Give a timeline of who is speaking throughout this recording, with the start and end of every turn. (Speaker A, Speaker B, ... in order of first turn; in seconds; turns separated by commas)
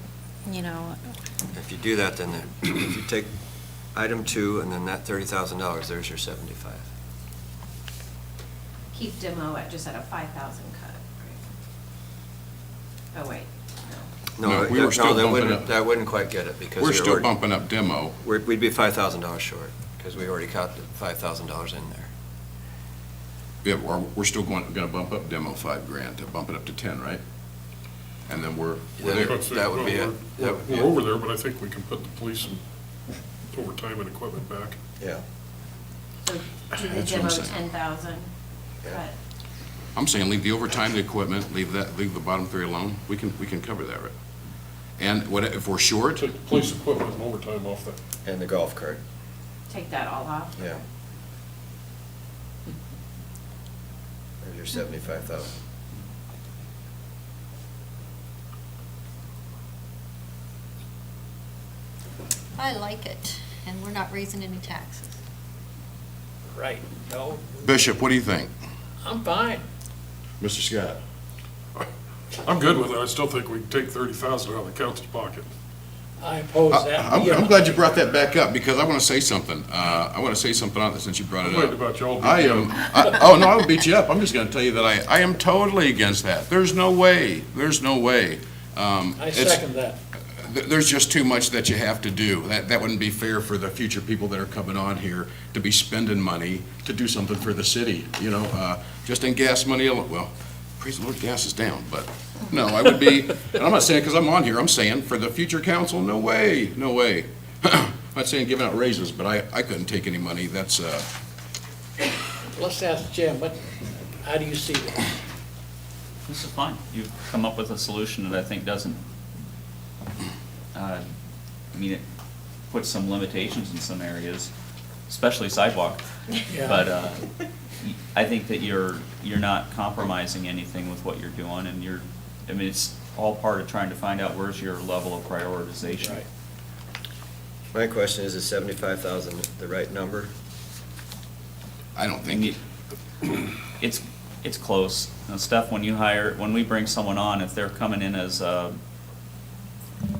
Speaker A: 0.5-1.0, Speaker B: 1.5-3.3, Speaker B: 3.9-6.8, Speaker C: 8.9-11.4, Speaker C: 13.1-14.1, Speaker B: 14.4-17.3, Speaker D: 14.4-15.7, Speaker D: 16.8-18.1, Speaker B: 18.2-22.1, Speaker D: 23.6-27.2, Speaker D: 28.3-29.4, Speaker B: 29.0-30.9, Speaker E: 29.1-32.6, Speaker E: 33.5-34.8, Speaker C: 36.2-38.3, Speaker D: 36.8-37.6, Speaker C: 38.8-39.1, Speaker D: 39.9-44.1, Speaker D: 45.0-46.2, Speaker E: 46.1-48.0, Speaker B: 48.2-49.0, Speaker C: 49.7-50.7, Speaker B: 54.4-55.5, Speaker A: 62.5-65.1, Speaker F: 66.5-67.6, Speaker D: 67.6-68.5, Speaker F: 69.0-69.6, Speaker D: 70.4-71.0, Speaker E: 72.4-75.5, Speaker F: 76.2-78.1, Speaker D: 76.7-89.7, Speaker E: 81.4-82.8, Speaker F: 89.2-90.0, Speaker D: 90.3-111.0, Speaker F: 112.5-113.6, Speaker F: 114.2-115.2, Speaker G: 116.3-119.0, Speaker G: 120.7-121.0, Speaker G: 121.7-122.0, Speaker G: 122.7-124.5, Speaker G: 125.1-126.0, Speaker F: 126.5-126.8, Speaker G: 126.6-127.3, Speaker G: 127.8-136.2, Speaker B: 137.7-140.3, Speaker D: 141.9-142.6, Speaker G: 142.3-142.6, Speaker G: 143.8-148.8